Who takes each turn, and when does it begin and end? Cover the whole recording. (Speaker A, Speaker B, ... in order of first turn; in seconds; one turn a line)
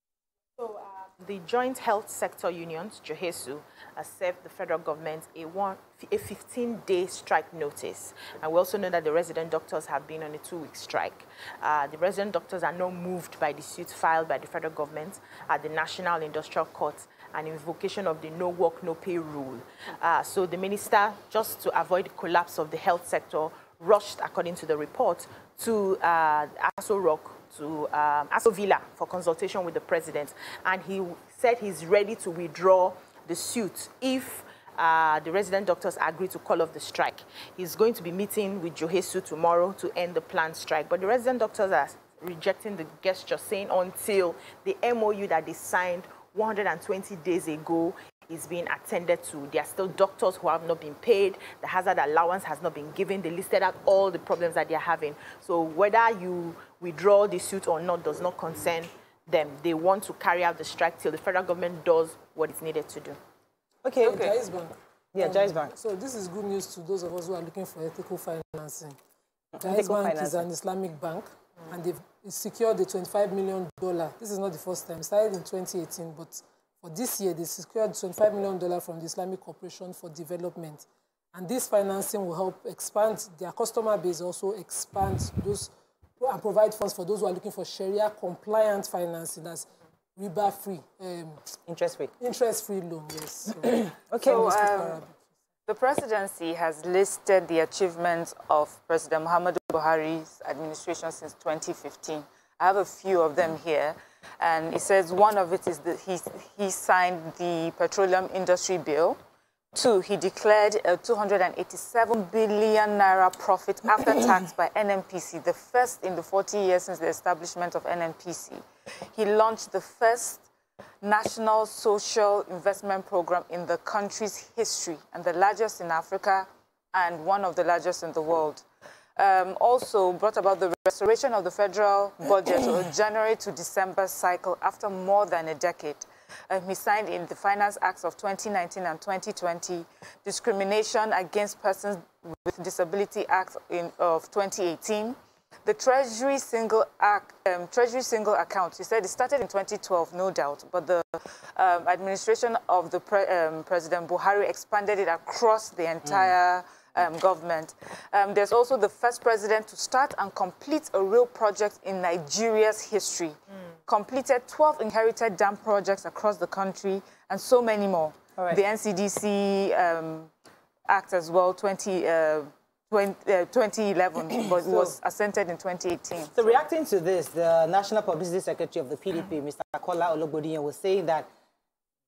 Speaker A: 0.6-63.2
Speaker B: 63.8-64.4
Speaker C: 64.0-69.0
Speaker B: 65.1-65.7
Speaker B: 69.5-70.5
Speaker C: 69.6-91.5
Speaker B: 91.7-92.1
Speaker C: 92.2-95.1
Speaker B: 93.6-94.9
Speaker D: 94.2-95.0
Speaker D: 95.7-109.2
Speaker D: 109.7-120.5
Speaker D: 121.0-128.6
Speaker D: 129.2-170.3
Speaker D: 170.9-176.6
Speaker B: 174.6-174.9
Speaker B: 176.3-181.3